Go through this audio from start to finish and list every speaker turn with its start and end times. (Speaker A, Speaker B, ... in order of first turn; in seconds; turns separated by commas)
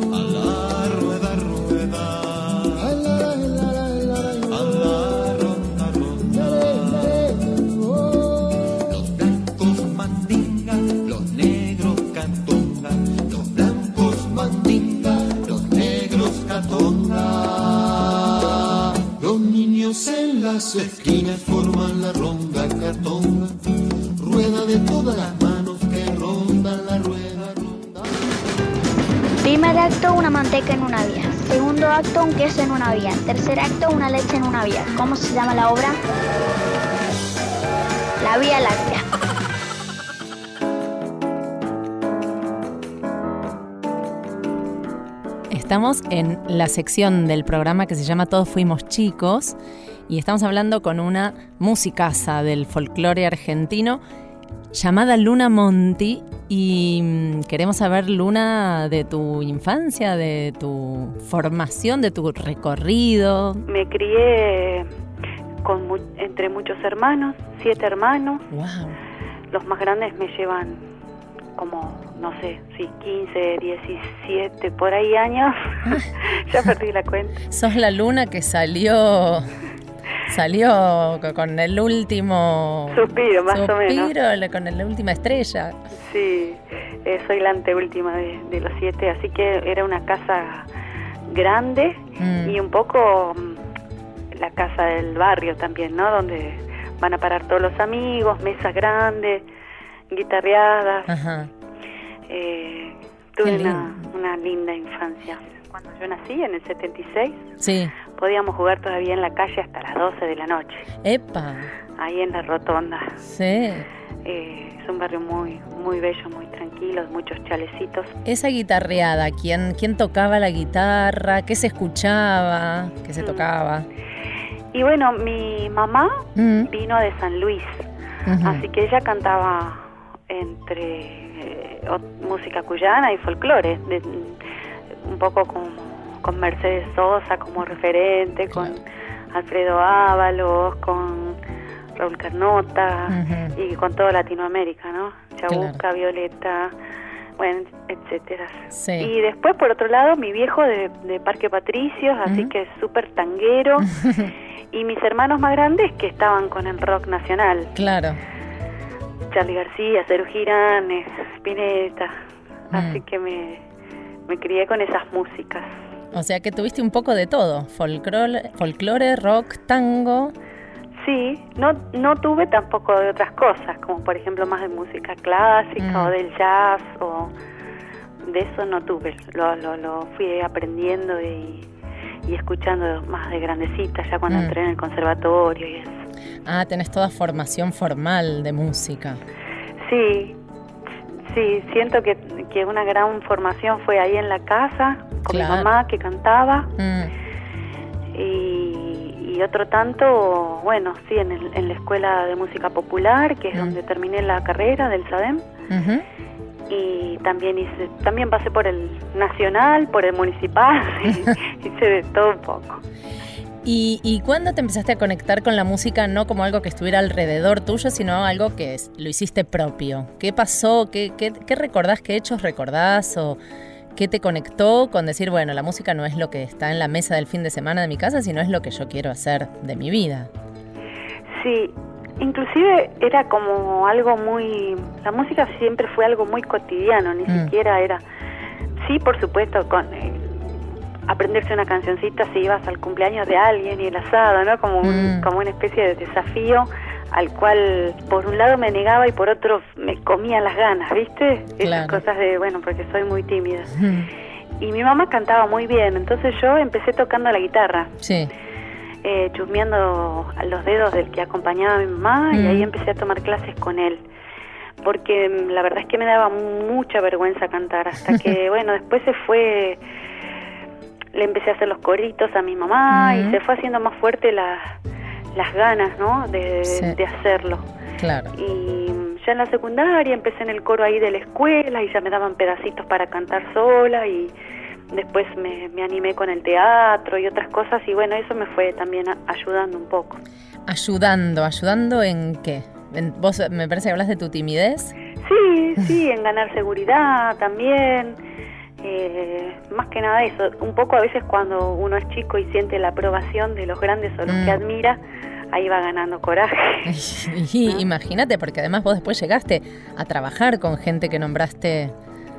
Speaker A: 0.1-2.9, Speaker B: 2.8-5.0, Speaker A: 4.5-7.2, Speaker B: 6.3-7.8, Speaker A: 8.9-16.9, Speaker B: 15.3-16.0, Speaker B: 16.7-18.2, Speaker B: 19.2-23.6, Speaker A: 20.7-21.8, Speaker B: 24.2-28.2, Speaker C: 29.4-36.0, Speaker C: 38.2-39.0, Speaker D: 45.5-49.5, Speaker D: 50.1-54.0, Speaker D: 54.7-63.6, Speaker E: 63.7-64.9, Speaker E: 65.6-68.4, Speaker D: 68.5-69.0, Speaker E: 69.5-70.8, Speaker E: 71.5-75.7, Speaker E: 76.3-77.3, Speaker D: 77.5-79.5, Speaker D: 80.3-85.7, Speaker E: 82.9-84.1, Speaker E: 86.0-90.7, Speaker E: 91.3-93.6, Speaker D: 92.2-92.6, Speaker E: 94.3-99.4, Speaker E: 100.1-101.1, Speaker D: 101.1-101.5, Speaker E: 102.3-107.5, Speaker D: 103.4-104.0, Speaker D: 107.6-107.9, Speaker E: 108.2-110.8, Speaker D: 111.0-111.7, Speaker E: 112.0-113.1, Speaker D: 113.2-113.8, Speaker E: 114.2-118.1, Speaker D: 118.2-123.8, Speaker E: 123.2-123.5, Speaker E: 124.7-127.8, Speaker D: 126.3-126.7, Speaker D: 128.3-128.6, Speaker E: 128.4-134.4, Speaker E: 135.0-138.8, Speaker E: 139.3-141.4, Speaker E: 142.0-146.7, Speaker D: 143.1-143.5, Speaker D: 145.5-145.8, Speaker E: 147.4-153.9, Speaker D: 148.7-149.1, Speaker D: 152.2-152.5, Speaker D: 153.8-154.3, Speaker E: 154.7-157.7, Speaker D: 157.7-158.2, Speaker E: 159.3-162.1, Speaker E: 162.7-163.6, Speaker D: 162.7-163.0, Speaker E: 164.3-165.7, Speaker D: 166.1-170.3, Speaker E: 171.0-177.3, Speaker D: 175.8-176.1, Speaker E: 178.2-181.7, Speaker E: 182.2-185.9, Speaker D: 184.3-184.5, Speaker D: 186.4-189.2, Speaker E: 189.8-190.3, Speaker E: 191.3-196.7, Speaker D: 195.3-195.7, Speaker D: 196.8-197.1, Speaker E: 198.1-205.4, Speaker D: 205.7-206.0, Speaker E: 206.7-212.8, Speaker D: 213.6-223.4, Speaker D: 223.9-230.3, Speaker E: 231.4-238.0, Speaker E: 238.8-240.5, Speaker E: 241.1-253.7, Speaker D: 244.8-245.3, Speaker D: 251.6-252.0, Speaker D: 253.7-254.1, Speaker E: 254.6-257.9, Speaker D: 258.0-258.3, Speaker E: 259.0-264.0, Speaker D: 262.3-262.7, Speaker E: 264.8-269.8, Speaker E: 271.1-274.8, Speaker D: 272.9-273.4, Speaker E: 275.3-277.6, Speaker D: 276.7-277.0, Speaker D: 278.0-278.3, Speaker E: 278.3-284.3, Speaker E: 284.9-290.2, Speaker D: 290.7-294.9, Speaker E: 295.2-298.2, Speaker E: 298.8-305.0, Speaker D: 304.3-304.6, Speaker E: 305.5-306.9, Speaker D: 306.9-311.9